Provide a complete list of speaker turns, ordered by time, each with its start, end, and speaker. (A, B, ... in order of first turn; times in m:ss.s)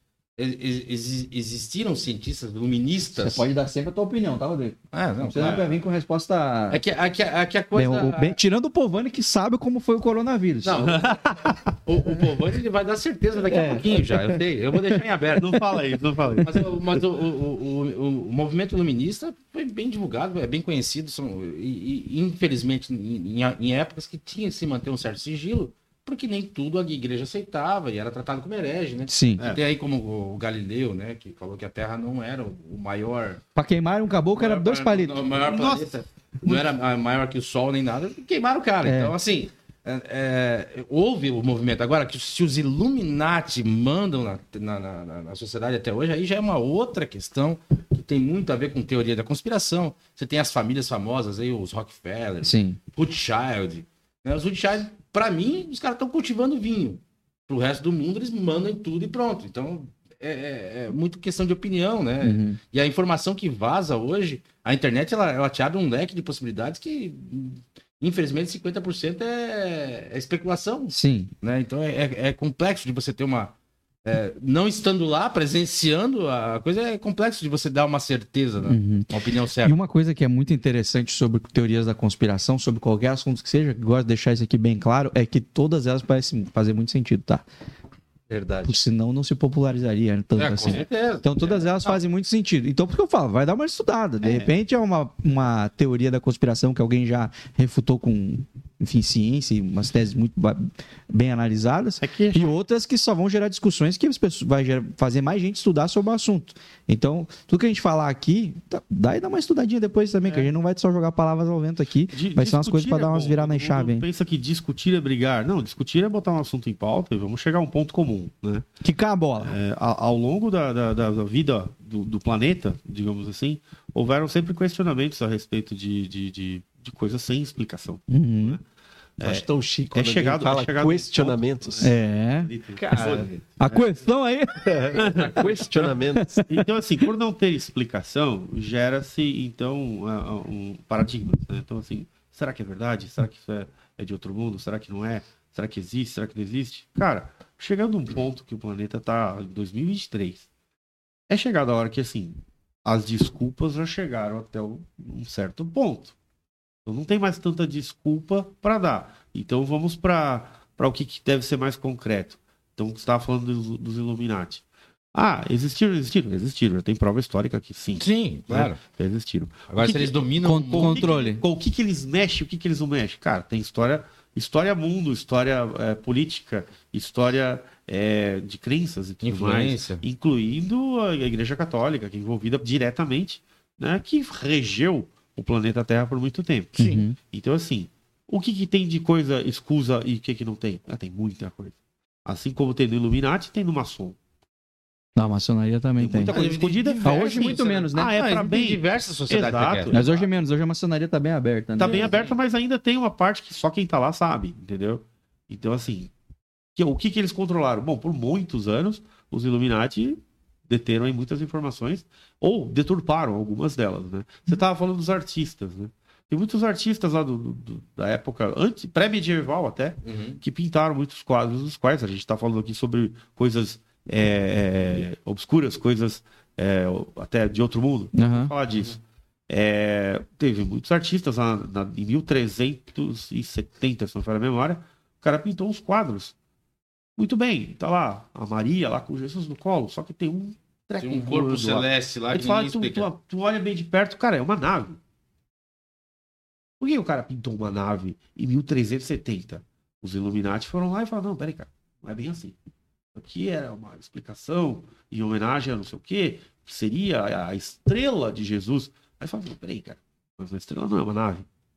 0:00.4-0:03.4 A
0:03.2-0:06.8 B
0:04.9-0:05.6 A
0:05.4-0:05.7 C
0:06.7-0:08.4 A
0:07.7-0:11.0 B
0:10.6-0:11.2 A
0:10.8-0:11.6 C
0:11.8-0:15.8 A
0:13.4-0:15.0 B
0:15.4-0:16.7 C
0:16.4-0:33.4 A
0:29.1-0:29.4 B
0:33.5-0:35.2 B
0:34.3-1:13.5 A
0:35.4-0:36.6 C
0:38.8-0:39.1 B
0:52.4-0:52.8 B
1:02.2-1:02.6 B
1:10.9-1:11.3 B
1:14.0-1:19.8 A
1:18.6-1:19.1 B
1:19.6-1:27.4 B
1:28.3-1:28.8 D
1:28.6-1:54.0 B
1:30.4-1:32.0 A
1:34.2-1:34.5 C
1:42.0-1:42.5 C
1:50.2-1:50.5 C
1:52.1-1:58.7 C
1:58.8-1:59.5 B
1:59.4-2:08.6 C
2:08.1-2:08.6 B
2:09.2-2:13.9 C
2:09.2-2:11.9 D
2:11.8-2:12.5 B
2:12.7-2:13.4 D
2:13.6-2:15.2 B
2:14.6-2:16.4 D
2:14.9-2:15.8 C
2:16.1-2:16.6 B
2:16.4-2:30.5 C
2:31.3-2:36.1 C
2:36.8-3:06.8 C
2:48.0-2:48.8 A
2:49.7-2:51.1 A
2:50.4-2:51.4 B
2:59.2-3:00.0 A
3:06.8-3:07.0 A
3:06.8-3:07.2 B
3:07.3-3:14.2 C
3:15.2-3:16.4 B
3:16.0-3:20.3 C
3:16.2-3:20.0 A
3:17.0-3:18.1 B
3:19.9-3:22.1 B
3:21.8-3:26.1 C
3:21.8-3:22.3 A
3:26.7-3:49.0 C
3:40.0-3:40.4 A
3:48.1-3:48.5 B
3:49.5-3:56.3 C
3:57.2-4:05.0 C
4:01.0-4:03.1 A
4:06.8-4:12.6 C
4:13.1-4:21.4 C